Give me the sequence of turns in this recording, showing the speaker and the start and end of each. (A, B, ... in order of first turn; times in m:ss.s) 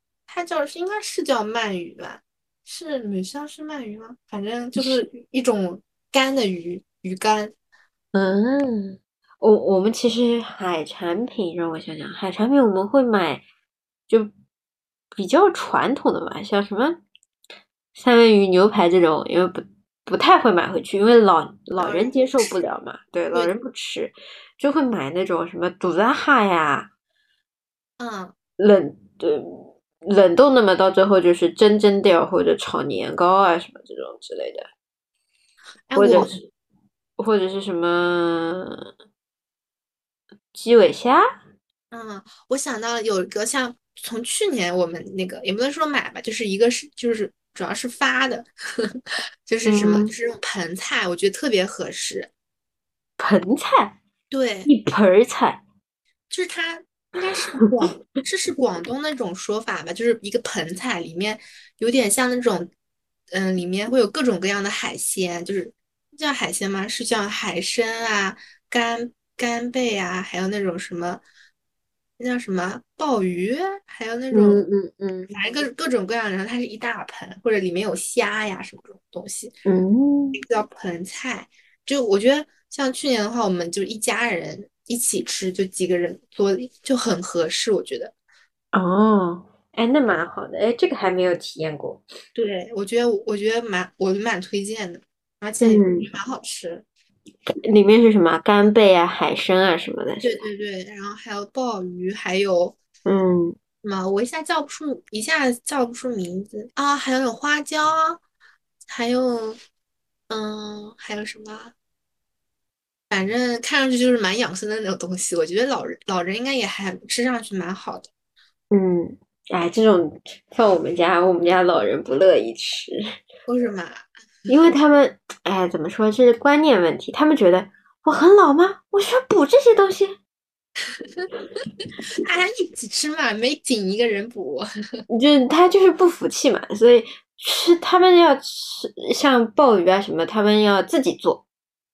0:00.3-0:07.5 A
0:08.1-0:13.4 B
0:15.1-0:17.0 B
0:17.9-0:26.9 B
0:21.8-0:22.5 A
0:28.0-0:28.3 A
0:28.6-0:34.7 B
0:35.9-0:36.4 A
0:35.9-0:36.4 B
0:37.2-0:38.9 B
0:40.5-0:41.2 B
0:41.9-0:48.5 A
0:49.4-0:52.3 A
0:49.6-0:50.1 B
0:53.2-0:53.9 B
0:54.3-0:54.7 A
0:54.6-0:55.6 B
0:56.3-1:02.7 A
1:03.3-1:11.2 A
1:12.2-1:14.6 A
1:14.3-1:15.3 B
1:15.3-1:19.5 A
1:19.6-1:20.4 B
1:20.3-1:28.1 A
1:28.7-1:32.0 B
1:32.4-1:36.8 A
1:35.6-1:36.1 B
1:37.6-1:40.4 B
1:40.2-1:42.8 A
1:43.0-1:43.6 B
1:43.8-1:48.2 A
1:48.9-1:49.6 A
1:50.3-1:51.7 A
1:53.1-1:58.1 A
1:58.7-2:03.0 B
2:03.5-2:04.0 A
2:04.5-2:10.1 B
2:11.0-2:11.3 A
2:12.1-2:14.6 A
2:15.1-2:21.4 B